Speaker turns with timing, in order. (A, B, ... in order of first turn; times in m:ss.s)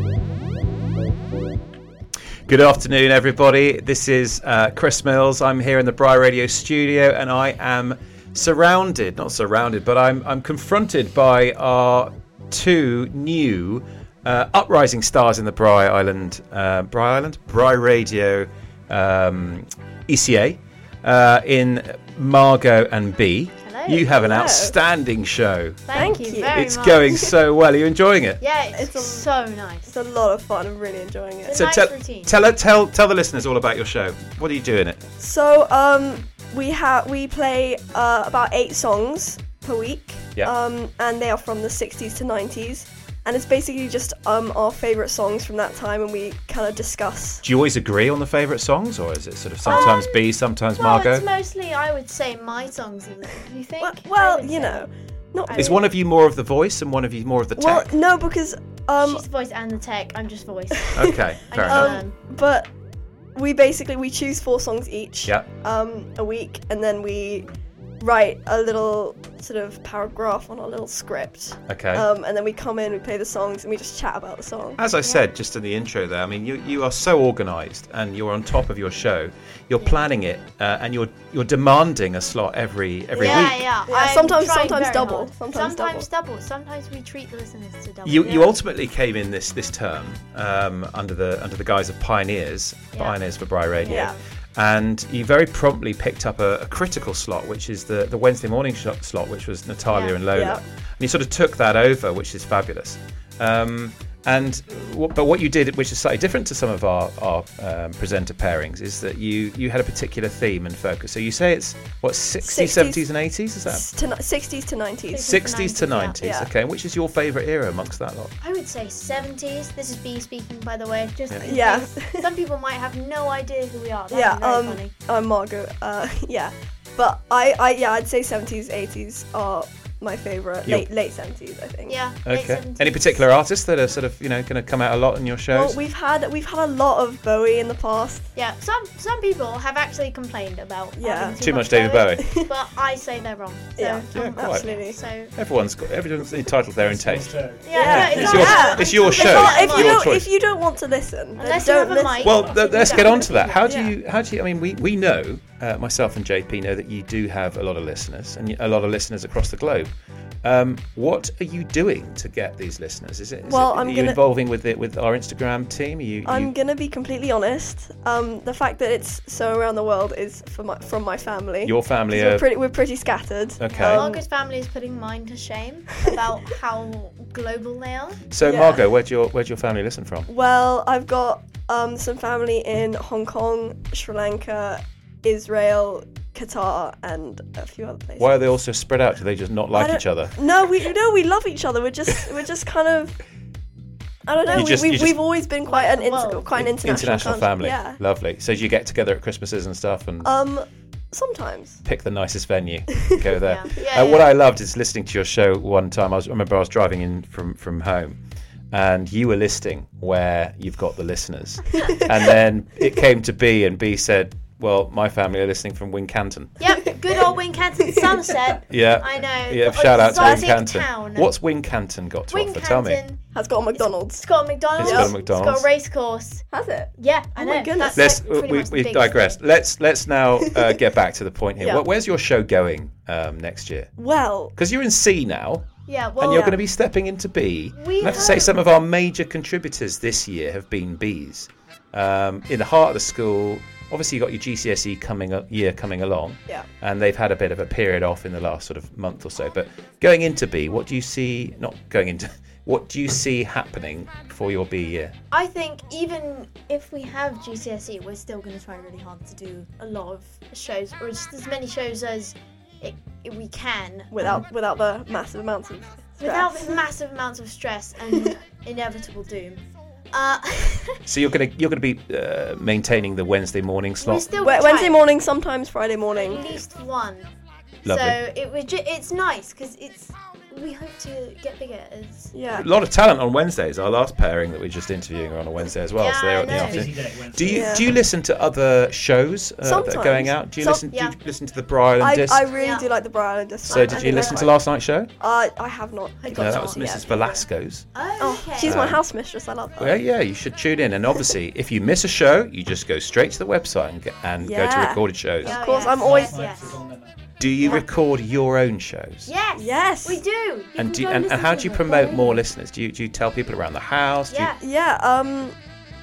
0:02.5-0:28.4 A
0:23.6-0:24.1 B
0:24.1-0:24.8 C
0:25.9-0:27.0 B
0:25.9-0:26.6 C
0:28.4-0:30.0 B
0:28.7-0:29.3 C
0:29.9-0:31.6 C
0:31.4-0:32.4 B
0:31.5-0:35.0 A
0:35.2-0:47.4 C
0:47.4-0:51.3 A
0:49.6-0:50.2 B
0:49.6-0:49.9 C
0:50.8-0:54.9 B
0:53.8-0:55.8 C
0:55.4-0:55.9 B
0:55.5-0:58.0 A
0:57.6-0:59.2 C
0:59.0-1:02.1 B
1:00.9-1:02.0 A
1:01.6-1:02.7 C
1:03.3-1:07.5 C
1:08.0-1:14.8 C
1:11.7-1:12.1 A
1:14.8-1:23.7 A
1:23.1-1:28.6 B
1:23.2-1:26.1 C
1:28.0-1:53.9 A
1:32.9-1:33.2 B
1:33.8-1:34.2 B
1:33.8-1:34.2 C
1:39.9-1:40.2 B
1:40.3-1:40.6 C
1:52.4-1:53.1 C
1:53.6-1:55.3 C
1:55.1-1:56.2 B
1:55.2-1:58.3 A
1:56.2-1:56.5 C
1:58.4-2:04.9 B
2:01.4-2:02.3 C
2:04.1-2:12.0 C
2:11.8-2:13.2 B
2:12.2-2:15.8 A
2:15.5-2:18.3 C
2:18.3-2:25.3 B
2:21.0-2:21.4 C
2:21.4-2:22.2 A
2:22.2-2:22.5 C
2:23.8-2:25.0 C
2:24.1-2:30.3 A
2:26.8-2:28.9 D
2:27.6-2:30.1 B
2:27.7-2:33.9 C
2:31.4-2:33.6 B
2:32.2-2:39.9 A
2:40.4-2:46.5 A
2:43.5-2:44.2 C
2:46.2-2:54.2 C
2:51.6-2:52.4 A
2:53.6-2:54.0 A
2:53.7-2:58.2 B
2:58.3-3:00.3 A
2:58.4-2:58.8 C
3:00.3-3:08.4 C
3:08.2-3:10.4 A
3:09.7-3:13.2 C
3:14.2-3:18.0 C
3:14.5-3:14.7 B
3:14.5-3:15.2 A
3:15.6-3:16.5 B
3:16.5-3:20.3 A
3:20.2-3:21.8 C
3:21.8-3:28.2 A
3:23.4-3:24.3 B
3:28.7-3:36.6 A
3:36.6-3:41.3 B
3:38.7-3:43.0 A
3:40.1-3:40.5 C
3:42.3-3:43.2 B
3:43.3-3:44.2 C
3:43.7-3:46.4 B
3:44.8-3:45.7 A
3:44.8-3:45.1 C
3:46.5-3:48.0 C
3:47.0-3:49.4 B
3:47.9-3:53.9 A
3:50.4-3:50.7 C
3:51.6-3:51.8 C
3:54.0-3:54.5 C
3:54.5-4:15.1 A
3:55.8-3:56.5 B
3:56.2-3:56.6 C
3:57.7-3:58.6 B
3:58.0-3:58.4 C
4:15.3-4:24.1 B
4:24.1-4:26.8 C
4:24.2-4:24.4 A
4:26.2-4:31.0 B
4:31.0-4:34.3 A
4:34.0-4:35.0 B
4:34.4-4:36.6 C
4:36.1-4:37.3 B
4:37.8-4:38.2 A
4:37.8-4:42.3 B
4:42.3-4:42.7 C
4:42.5-4:52.4 A
4:46.0-4:46.8 B
4:46.4-4:47.8 D
4:47.5-4:47.8 C
4:49.6-4:50.8 C
4:50.9-4:51.2 B
4:52.0-4:54.6 C
4:52.5-4:52.9 B
4:53.6-4:54.5 B
4:53.7-4:55.1 A
4:55.2-4:57.0 C
4:56.2-4:58.8 B
4:56.4-4:57.9 A
4:58.2-5:00.0 C
4:58.6-4:59.0 A
4:59.8-5:05.6 A
5:04.4-5:06.4 C
5:05.4-5:06.8 B
5:05.4-5:07.8 D
5:07.4-5:09.3 A
5:09.2-5:12.4 B
5:09.6-5:10.2 C
5:10.8-5:14.5 A
5:14.3-5:14.6 B
5:14.6-5:15.6 C